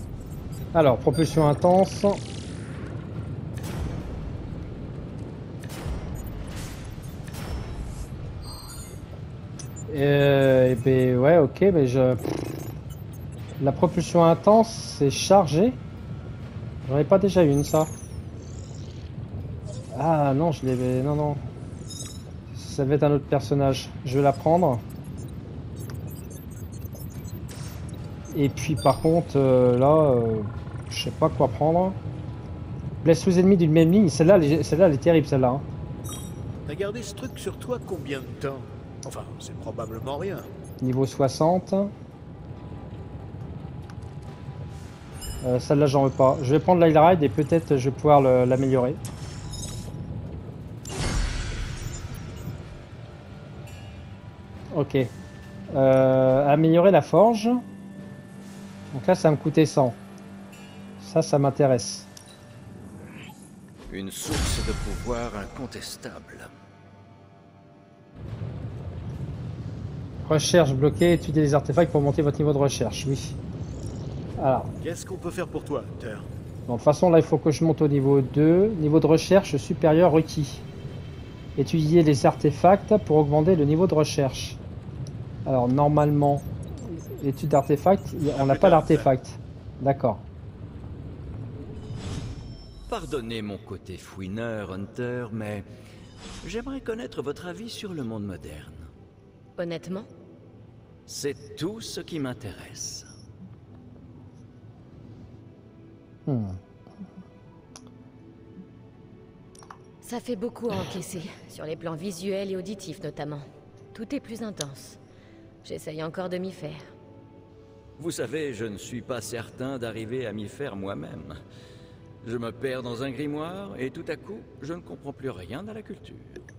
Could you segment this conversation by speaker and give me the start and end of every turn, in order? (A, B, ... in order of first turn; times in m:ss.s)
0:00.7-0:02.2 A
0:09.9-0:12.3 A
0:13.6-0:15.8 A
0:16.8-0:17.9 A
0:19.9-0:21.4 A
0:22.5-0:24.8 A
0:28.3-0:32.0 A
0:33.0-0:35.6 A
0:36.6-0:40.5 B
0:40.8-0:41.9 A
0:45.4-0:49.0 A
0:54.7-0:55.1 A
0:55.7-0:57.6 A
0:58.9-1:00.0 A
1:01.0-1:02.1 A
1:03.9-1:06.5 C
1:10.2-1:13.4 A
1:14.4-1:14.7 A
1:14.8-1:16.3 B
1:16.7-1:20.6 A
1:21.6-1:24.6 A
1:25.4-1:30.2 A
1:28.3-1:29.1 B
1:32.9-1:35.6 C
1:36.4-1:38.9 C
1:39.6-1:40.1 D
1:41.1-1:43.1 C
1:46.2-1:46.6 A
1:50.0-1:55.0 D
1:55.6-1:56.9 D
1:58.0-2:01.4 C
2:02.2-2:06.4 C